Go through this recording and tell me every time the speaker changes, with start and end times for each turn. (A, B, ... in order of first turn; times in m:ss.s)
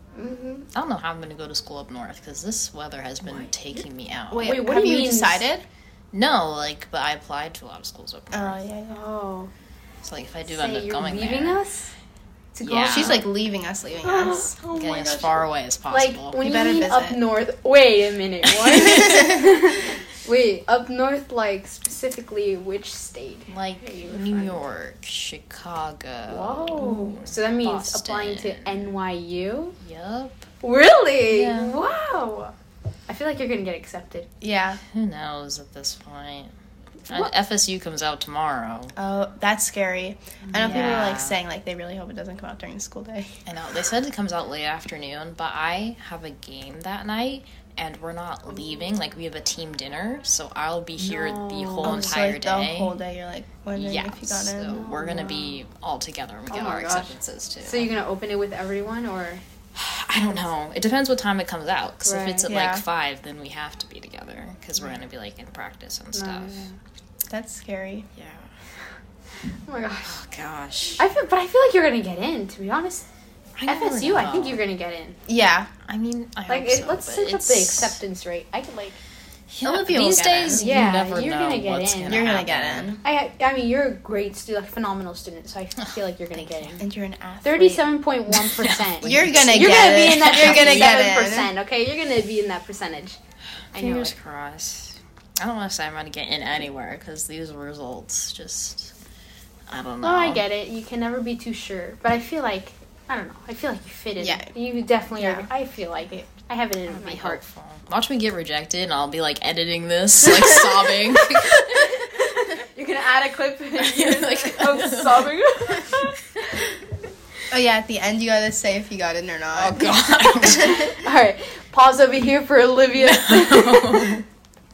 0:00.2-0:00.7 A
0:00.7-0:04.5 B
0:04.3-0:05.6 C
0:04.4-0:05.4 A
0:06.1-0:08.6 B
0:08.3-0:09.1 C
0:08.9-0:09.5 A
0:10.0-0:11.6 B
0:10.5-0:11.9 A
0:12.6-0:13.3 A
0:12.6-0:13.3 B
0:12.9-0:14.6 C
0:14.0-0:24.6 A
0:14.7-0:16.4 B
0:16.4-0:17.2 C
0:18.8-0:19.1 C
0:19.0-0:19.3 B
0:23.5-0:28.9 B
0:26.3-0:29.8 A
0:29.8-0:30.5 B
0:30.6-0:32.5 A
0:31.3-0:31.8 B
0:33.1-0:34.3 A
0:34.4-0:34.8 C
0:34.9-0:36.5 B
0:37.1-0:39.0 B
0:39.0-0:43.4 C
0:40.6-0:41.4 B
0:43.5-0:52.9 B
0:51.0-0:52.2 A
0:51.8-0:54.8 C
0:53.8-0:57.9 B
0:54.7-0:55.6 A
0:56.5-0:59.4 A
0:59.8-1:06.7 B
1:02.0-1:02.5 A
1:02.5-1:02.8 C
1:06.1-1:06.8 A
1:07.3-1:08.1 C
1:08.2-1:08.5 B
1:09.7-1:10.1 A
1:10.1-1:11.0 B
1:11.0-1:13.1 A
1:13.6-1:14.6 B
1:13.7-1:15.2 A
1:15.3-1:15.7 C
1:15.8-1:18.0 B
1:16.5-1:19.0 A
1:19.5-1:23.0 B
1:19.6-1:20.7 C
1:20.6-1:22.3 A
1:22.1-1:23.0 C
1:23.0-1:26.8 A
1:26.3-1:26.8 B
1:26.8-1:27.9 C
1:27.4-1:33.2 A
1:28.3-1:31.0 B
1:29.0-1:31.5 C
1:33.7-1:34.1 A
1:33.7-1:38.9 B
1:39.7-1:40.4 B
1:40.0-1:47.4 A
1:44.2-1:44.5 C
1:45.1-1:45.5 C
1:46.9-1:52.1 B
1:51.4-1:56.7 A
1:53.8-1:56.0 B
1:57.5-1:59.9 C
1:59.5-2:01.0 B
2:00.1-2:04.2 A
2:02.9-2:04.2 B